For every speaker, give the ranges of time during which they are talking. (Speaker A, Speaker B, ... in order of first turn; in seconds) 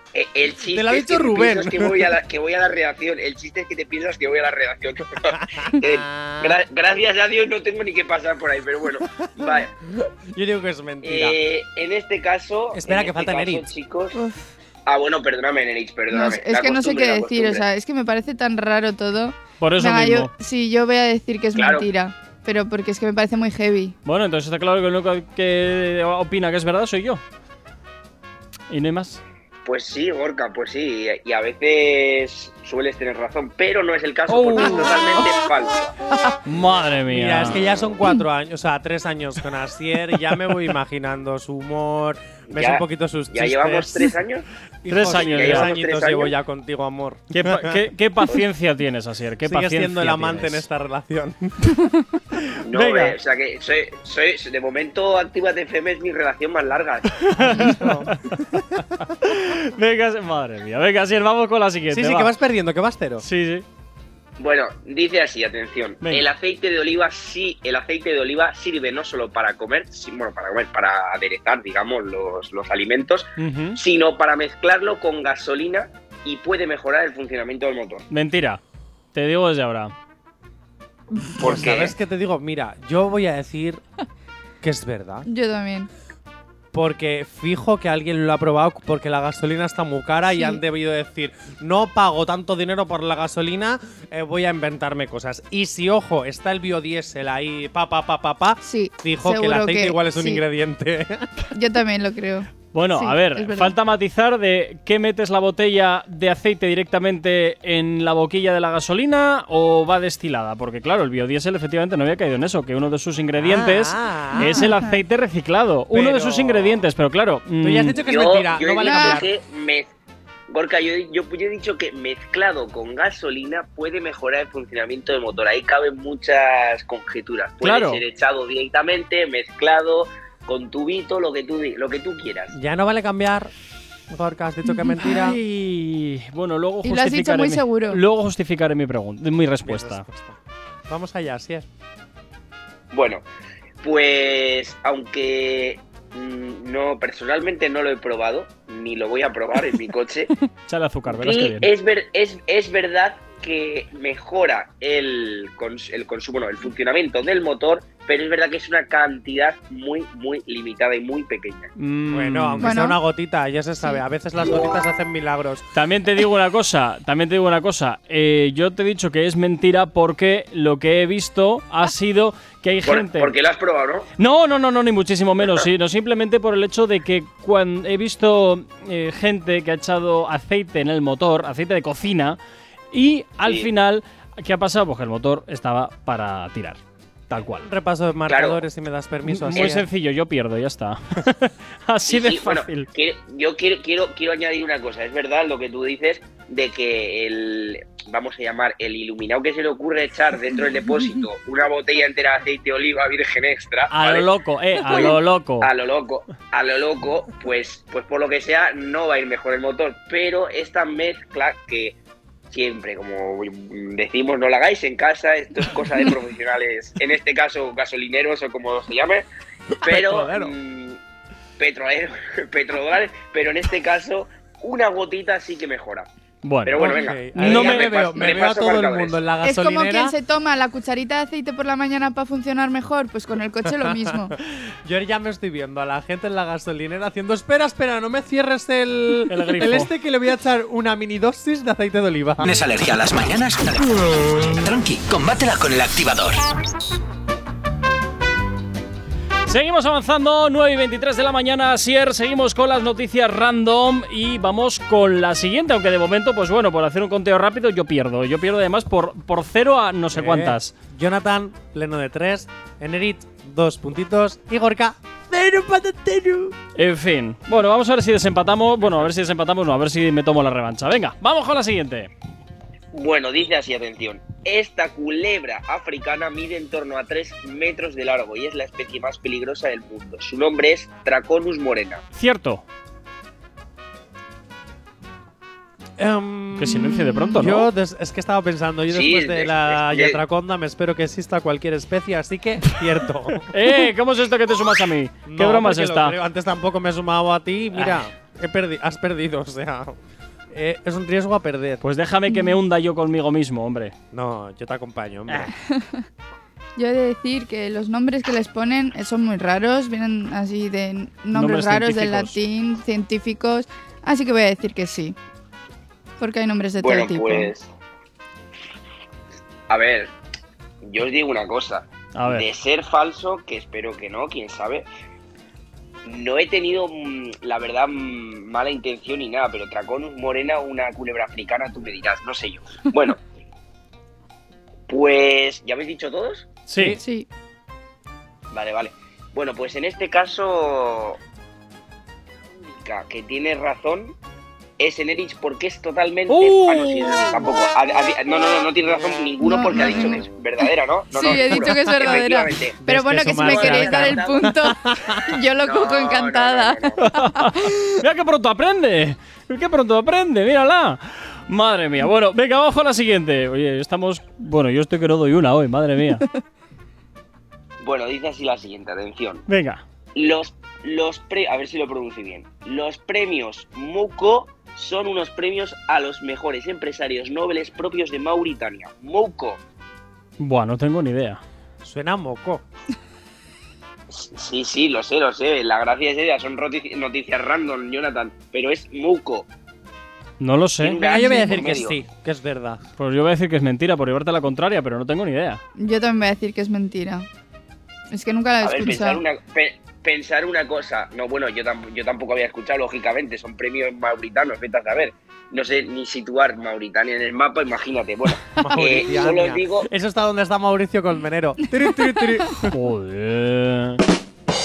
Speaker A: 0.1-9.7, 11.0-14.2, 14.8-17.6, 21.5-21.9, 29.6-35.9, 42.5-44.5, 45.0-46.3, 52.6-57.2, 64.4-78.0, 81.4-81.9, 118.0-119.9, 120.5-132.5, 142.9-143.2, 143.8-150.3, 151.1-161.7, 172.8-174.1, 183.4-183.7, 188.3-188.6, 192.0-204.3, 204.8-211.9, 212.5-219.2, 219.8-221.0, 221.6-226.1, 226.6-229.2, 272.9-282.0, 288.9-290.2, 316.8-317.7, 319.7-320.1, 320.8-324.9, 326.0-333.2, 334.9-336.5, 338.5-341.2, 342.6-344.1, 344.8-354.5, 355.6-357.0, 367.8-369.4, 370.1-379.6, 384.1-389.5, 390.8-392.0, 398.6-409.9
Speaker B: 0.7-2.1, 5.3-6.6, 9.2-11.4, 12.7-13.7, 37.1-44.1, 44.8-47.8, 49.4-51.7, 57.4-58.1, 61.9-63.2, 81.4-83.8, 84.6-85.3, 86.7-101.3, 113.4-114.7, 115.9-116.8, 117.6-119.3, 132.5-133.5, 134.1-135.4, 139.6-141.7, 162.1-165.6, 187.6-189.9, 219.8-220.5, 226.8-230.1, 233.7-234.1, 234.8-242.5, 260.1-266.5, 286.0-293.5, 295.2-299.9, 300.5-301.8, 304.1-305.5, 336.8-337.0, 351.3-352.2, 352.8-355.2, 381.8-382.6, 391.0-392.8, 408.6-412.7
Speaker C: 14.2-14.4, 16.1-23.9, 85.3-85.9, 90.3-90.6, 98.6-100.4, 101.5-103.7, 114.4-115.0, 118.8-119.2, 136.8-138.0, 162.6-163.0, 229.4-234.4, 305.6-306.0, 306.8-315.1, 316.2-317.5, 337.0-337.3, 349.4-357.9, 391.1-391.6, 395.8-397.3, 398.1-399.2
Speaker D: 19.6-20.3, 24.0-27.2, 28.7-29.2, 34.3-35.2, 36.4-37.6, 44.9-45.7, 47.3-50.6, 52.7-53.1, 57.2-62.3, 63.2-63.6, 66.0-66.3, 73.4-73.8, 78.1-78.6, 79.1-79.9, 102.7-118.0, 127.6-128.0, 135.0-140.0, 150.7-151.7, 161.8-162.7, 165.7-173.3, 174.2-182.4, 182.9-187.7, 189.3-192.9, 203.9-205.7, 226.4-227.9, 239.3-239.9, 249.5-260.7, 266.8-272.1, 282.1-282.6, 286.6-287.7, 293.5-296.1, 301.8-303.9, 311.3-312.4, 322.1-322.5, 336.7-337.0, 346.3-347.4, 357.0-366.2, 369.5-369.8, 380.4-381.4, 390.4-391.0, 393.0-395.6, 412.7-414.0
Speaker E: 242.4-246.5